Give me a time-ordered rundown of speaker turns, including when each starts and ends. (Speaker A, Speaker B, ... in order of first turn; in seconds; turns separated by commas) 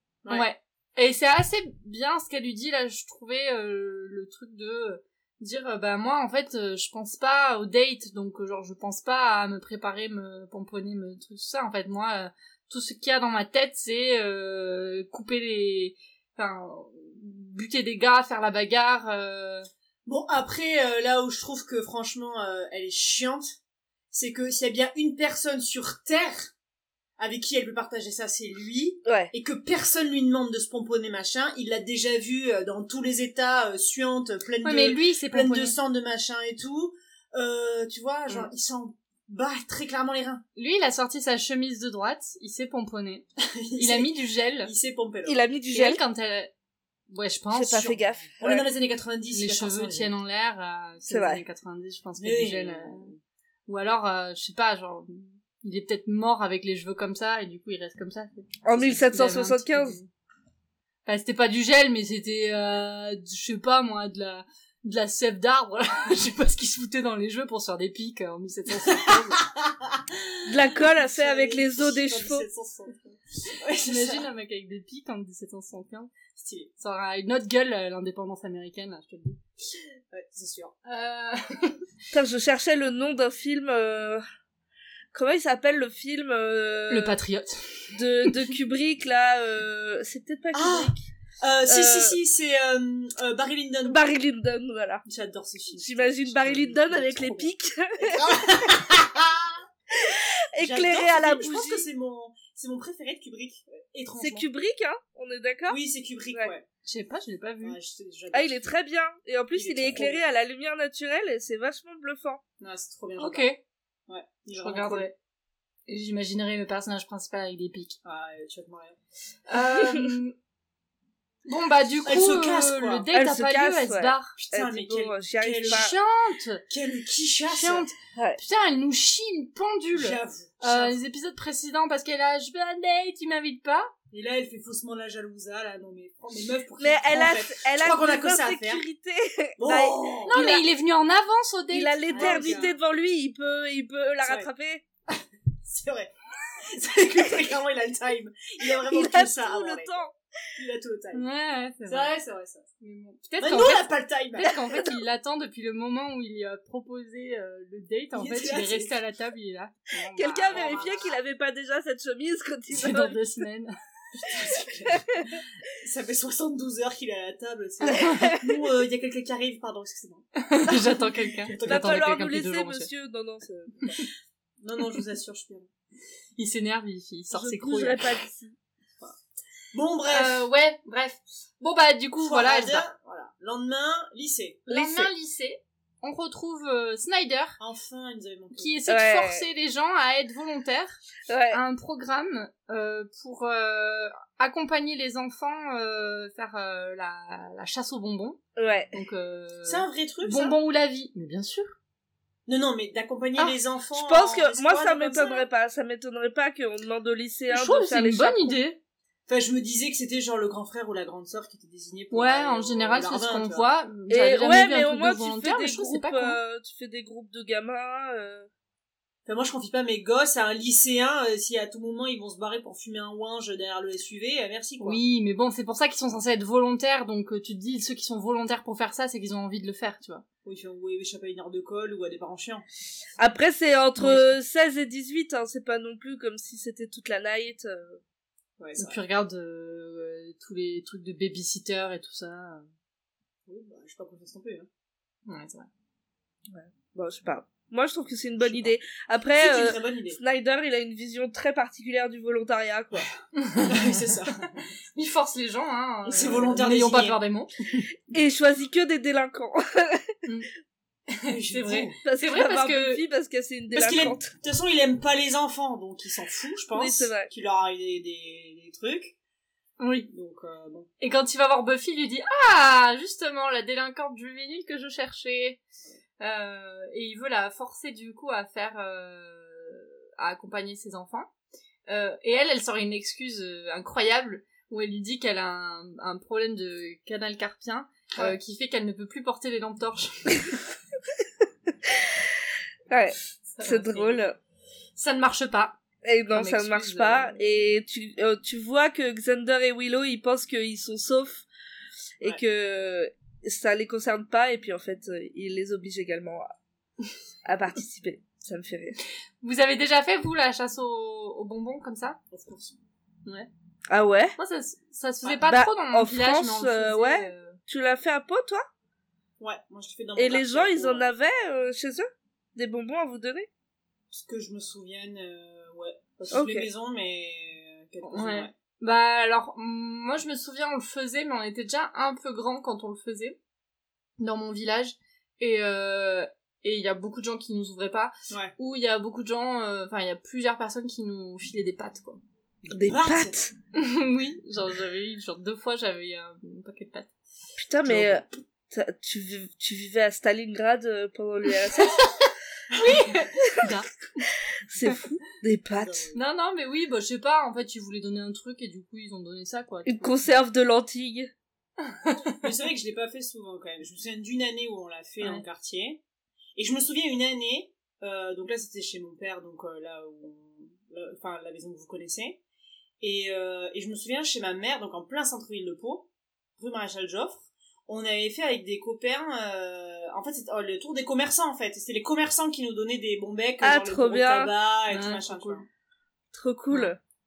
Speaker A: 0.3-19.7, Speaker B: 20.1-23.6, Speaker B: 24.1-26.5, Speaker B: 27.2-40.4, Speaker C: 29.1-29.3, Speaker A: 34.6-35.8, Speaker A: 40.6-43.2, Speaker B: 43.4-44.1, Speaker A: 43.8-44.7, Speaker B: 44.6-45.4, Speaker C: 45.3-46.0, Speaker A: 45.7-46.5, Speaker A: 47.1-48.0, Speaker C: 47.5-48.7, Speaker B: 47.8-50.1, Speaker A: 49.3-53.1, Speaker C: 51.1-51.4, Speaker B: 52.2-53.2, Speaker A: 53.7-60.1, Speaker C: 58.6-60.0, Speaker A: 61.1-69.5, Speaker B: 68.9-70.0, Speaker C: 70.5-72.5, Speaker B: 70.7-74.3, Speaker A: 73.8-76.1, Speaker B: 76.3-76.7, Speaker A: 76.8-79.4, Speaker B: 80.1-80.8, Speaker A: 80.8-81.8, Speaker C: 82.1-84.2, Speaker C: 85.1-87.2, Speaker A: 86.9-88.3, Speaker C: 87.9-91.1, Speaker B: 90.5-94.0, Speaker C: 91.7-92.2, Speaker C: 93.9-95.0, Speaker B: 95.0-99.6, Speaker C: 95.8-98.8, Speaker C: 100.0-101.9, Speaker B: 100.6-104.5, Speaker C: 104.2-105.8, Speaker B: 105.7-106.7, Speaker A: 106.8-107.8, Speaker B: 107.6-108.7, Speaker C: 108.3-112.4, Speaker B: 109.5-110.2, Speaker B: 112.6-113.5, Speaker A: 113.2-113.6, Speaker B: 114.1-115.1, Speaker A: 114.5-115.1, Speaker A: 115.9-118.0, Speaker B: 118.0-119.0, Speaker A: 119.5-120.3, Speaker C: 119.7-120.1, Speaker A: 121.5-124.3, Speaker B: 122.1-123.1, Speaker C: 123.1-125.9, Speaker B: 124.4-125.9, Speaker A: 125.7-126.6, Speaker B: 126.7-127.9, Speaker A: 127.5-133.9, Speaker B: 129.9-131.0, Speaker B: 134.1-138.8, Speaker C: 136.8-140.6, Speaker B: 139.6-140.4, Speaker A: 140.3-142.6, Speaker C: 141.7-144.8, Speaker B: 142.1-142.8, Speaker B: 144.2-144.5, Speaker B: 145.1-150.0, Speaker C: 148.9-150.1, Speaker B: 150.6-151.3, Speaker A: 151.1-152.2, Speaker B: 151.9-152.7, Speaker A: 152.8-161.1, Speaker B: 153.4-154.5, Speaker C: 154.4-154.9, Speaker B: 158.1-159.0, Speaker C: 160.1-163.2, Speaker B: 160.5-161.1, Speaker A: 162.7-164.5, Speaker B: 164.2-165.2, Speaker B: 165.8-170.3, Speaker A: 167.9-168.2, Speaker A: 170.4-172.9, Speaker B: 171.4-172.1, Speaker C: 171.6-173.8, Speaker B: 174.6-175.7, Speaker A: 176.4-178.2, Speaker C: 177.3-178.6, Speaker B: 179.7-180.5, Speaker A: 180.1-182.9, Speaker B: 182.2-184.7, Speaker A: 184.7-187.6, Speaker C: 184.7-185.1, Speaker B: 187.6-188.8, Speaker A: 188.6-198.4, Speaker C: 188.9-189.4, Speaker C: 191.3-191.6, Speaker C: 198.6-198.9, Speaker A: 198.9-201.8, Speaker B: 199.7-200.6, Speaker B: 202.5-205.4, Speaker C: 203.9-208.6, Speaker A: 207.5-208.8, Speaker B: 209.3-213.8, Speaker A: 212.1-216.4, Speaker C: 214.1-218.5, Speaker B: 219.3-225.0, Speaker A: 224.8-230.2, Speaker B: 230.4-232.7, Speaker C: 233.2-238.0, Speaker A: 234.0-234.3, Speaker B: 238.6-239.0, Speaker A: 238.8-242.7, Speaker B: 243.5-244.7, Speaker A: 245.3-245.7, Speaker C: 246.5-253.1, Speaker B: 248.4-248.8, Speaker B: 249.3-250.2, Speaker B: 253.0-254.5, Speaker A: 253.4-257.8, Speaker B: 256.1-257.2, Speaker C: 258.1-260.1, Speaker A: 261.1-263.0, Speaker B: 261.3-262.0, Speaker C: 262.0-264.3, Speaker B: 263.7-269.1, Speaker C: 266.7-267.3, Speaker A: 269.8-270.1, Speaker B: 270.1-270.9, Speaker A: 271.0-275.6, Speaker A: 276.2-281.3, Speaker A: 281.9-290.6, Speaker C: 292.9-294.4, Speaker A: 293.5-294.2, Speaker A: 295.0-295.8, Speaker C: 296.0-301.5, Speaker A: 296.3-297.4, Speaker C: 302.2-306.6, Speaker C: 307.5-309.0, Speaker A: 309.4-312.2, Speaker B: 312.3-312.8, Speaker C: 313.9-314.4, Speaker A: 314.4-317.6, Speaker C: 315.5-318.7, Speaker B: 319.4-321.1, Speaker C: 320.2-323.5, Speaker B: 324.1-328.5, Speaker C: 326.3-326.7, Speaker A: 328.0-333.4, Speaker A: 334.2-342.2, Speaker B: 342.7-343.4, Speaker C: 342.7-343.5, Speaker A: 343.8-347.1, Speaker C: 347.6-352.1, Speaker B: 347.9-348.3, Speaker A: 351.6-353.9, Speaker B: 352.8-353.1, Speaker C: 354.8-356.1, Speaker A: 354.8-355.1, Speaker B: 355.7-356.2, Speaker A: 356.1-360.2, Speaker C: 359.9-361.3, Speaker A: 361.9-362.4, Speaker B: 362.4-366.0, Speaker B: 366.6-372.4, Speaker B: 373.0-376.1, Speaker B: 376.6-385.6, Speaker C: 383.6-384.5, Speaker A: 384.9-385.6, Speaker C: 386.3-387.0